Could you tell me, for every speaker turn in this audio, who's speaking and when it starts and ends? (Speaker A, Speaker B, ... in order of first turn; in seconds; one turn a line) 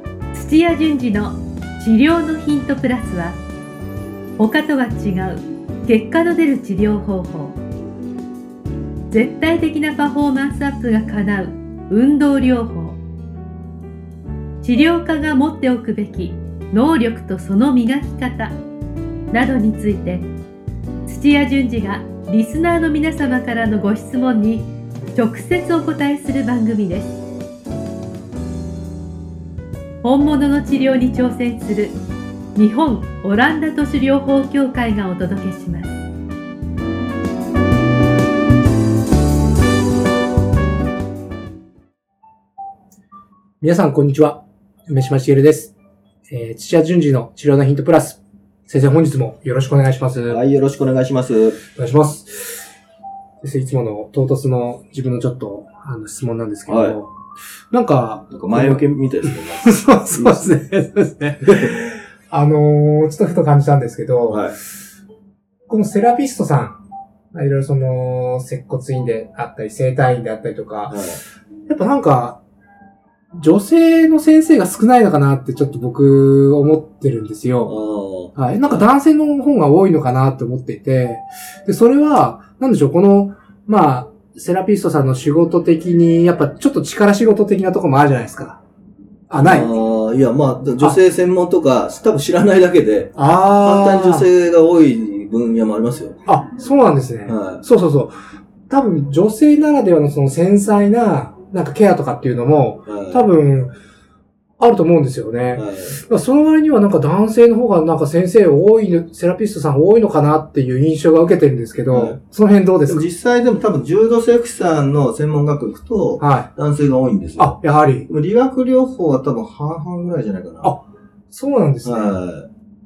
Speaker A: 0.3-3.4
Speaker A: 4.4-7.6
Speaker A: 9.1-13.0
Speaker A: 14.6-18.6
Speaker A: 19.3-20.3
Speaker A: 21.1-27.2
Speaker A: 30.0-32.0
Speaker A: 32.5-36.0
Speaker B: 43.6-45.7
Speaker B: 46.3-50.4
Speaker C: 50.3-51.6
Speaker B: 51.7-52.7
Speaker B: 53.4-57.1
Speaker C: 56.7-57.0
Speaker B: 57.7-64.5
Speaker C: 58.3-60.6
Speaker C: 61.4-61.8
Speaker C: 64.3-64.6
Speaker B: 65.7-66.8
Speaker B: 67.3-71.0
Speaker C: 70.9-71.2
Speaker B: 71.7-72.4
Speaker B: 73.3-77.8
Speaker C: 77.6-78.9
Speaker B: 78.3-88.6
Speaker B: 89.3-89.7
Speaker C: 89.4-96.2
Speaker B: 93.1-94.3
Speaker B: 96.2-98.2
Speaker C: 97.2-97.6
Speaker B: 98.7-103.7
Speaker C: 102.9-103.3
Speaker B: 104.6-113.0
Speaker C: 105.5-106.0
Speaker C: 111.9-112.2
Speaker C: 112.9-120.8
Speaker B: 116.2-116.5
Speaker B: 117.4-118.1
Speaker B: 120.6-122.2
Speaker C: 121.8-122.5